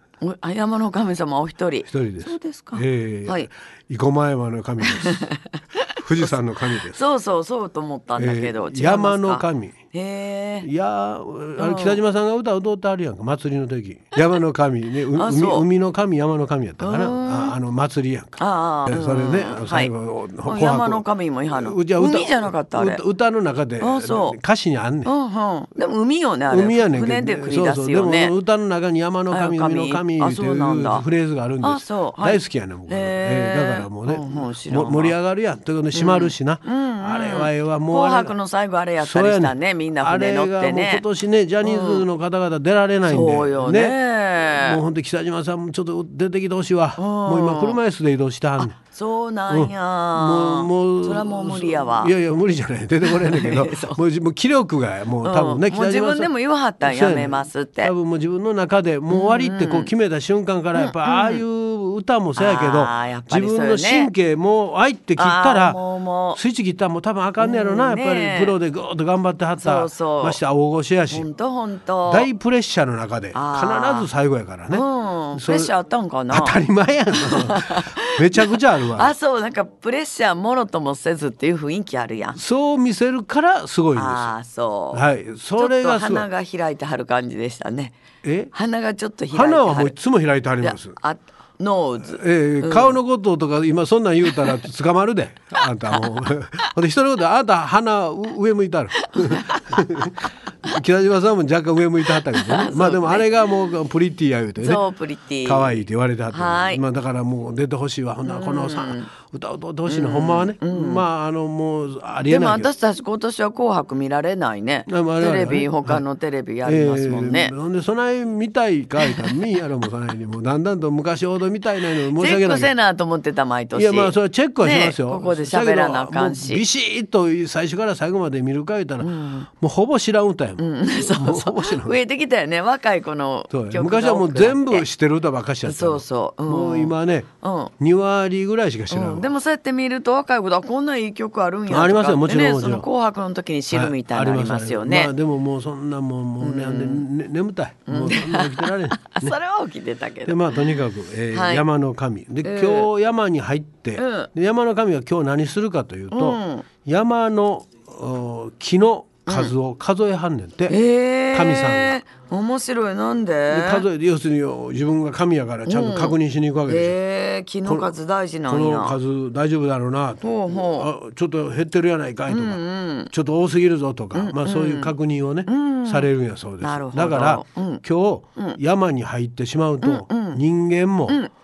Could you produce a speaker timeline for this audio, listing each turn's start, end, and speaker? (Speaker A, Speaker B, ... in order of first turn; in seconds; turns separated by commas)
Speaker A: 0.2-3.5, Speaker B: 1.9-5.3, Speaker A: 4.8-6.0, Speaker B: 5.9-7.0, Speaker A: 6.7-10.7, Speaker B: 8.2-9.8, Speaker B: 10.6-25.1, Speaker A: 11.6-12.0, Speaker A: 15.1-15.7, Speaker A: 16.8-17.6, Speaker A: 18.4-19.9, Speaker A: 20.4-23.0, Speaker A: 23.8-24.4, Speaker A: 25.0-28.3, Speaker B: 26.5-38.3, Speaker A: 29.3-31.1, Speaker A: 31.6-35.1, Speaker A: 35.9-41.0, Speaker B: 39.0-48.8, Speaker A: 41.6-42.0, Speaker A: 43.0-44.8, Speaker A: 47.0-47.8, Speaker A: 48.6-52.1, Speaker B: 49.5-65.8, Speaker A: 53.0-54.0, Speaker A: 55.2-57.9, Speaker A: 59.1-59.9, Speaker A: 60.7-61.4, Speaker A: 62.4-64.1, Speaker A: 65.2-66.4, Speaker B: 66.3-71.3, Speaker A: 67.4-68.5, Speaker A: 69.6-70.4, Speaker A: 71.1-72.3, Speaker B: 72.0-75.7, Speaker A: 73.3-74.1, Speaker A: 74.7-76.6, Speaker B: 76.3-79.1, Speaker A: 77.1-82.4, Speaker B: 82.3-84.3, Speaker A: 83.9-85.0, Speaker B: 84.9-86.3, Speaker A: 85.6-88.0, Speaker B: 88.2-88.5, Speaker A: 88.5-89.9, Speaker B: 89.3-91.0, Speaker A: 90.6-93.0, Speaker B: 92.1-104.8, Speaker A: 94.2-94.6, Speaker A: 95.9-96.2, Speaker A: 99.0-99.8, Speaker A: 102.3-103.3, Speaker A: 104.6-106.8, Speaker B: 105.4-112.7, Speaker A: 108.2-109.1, Speaker A: 109.8-111.0, Speaker A: 112.2-117.5, Speaker B: 114.9-116.0, Speaker B: 116.6-122.7, Speaker A: 119.0-119.4, Speaker A: 122.1-126.6, Speaker B: 123.7-131.9, Speaker A: 129.0-129.5, Speaker A: 130.6-134.9, Speaker B: 133.5-137.3, Speaker A: 135.6-137.7, Speaker B: 137.8-139.3, Speaker A: 138.9-145.1, Speaker B: 141.7-142.9, Speaker B: 143.7-149.4, Speaker A: 146.4-147.1, Speaker A: 147.8-150.8, Speaker B: 150.2-160.8, Speaker A: 151.3-151.6, Speaker A: 152.4-152.9, Speaker A: 153.9-154.3, Speaker A: 156.1-156.7, Speaker A: 159.2-159.5, Speaker A: 160.7-163.9, Speaker B: 161.3-162.0, Speaker B: 163.5-167.0, Speaker A: 165.7-169.0, Speaker B: 167.6-167.9, Speaker B: 168.5-181.2, Speaker A: 170.2-170.9, Speaker A: 172.3-173.1, Speaker A: 174.1-174.9, Speaker A: 175.4-176.1, Speaker A: 176.6-177.8, Speaker A: 179.8-180.4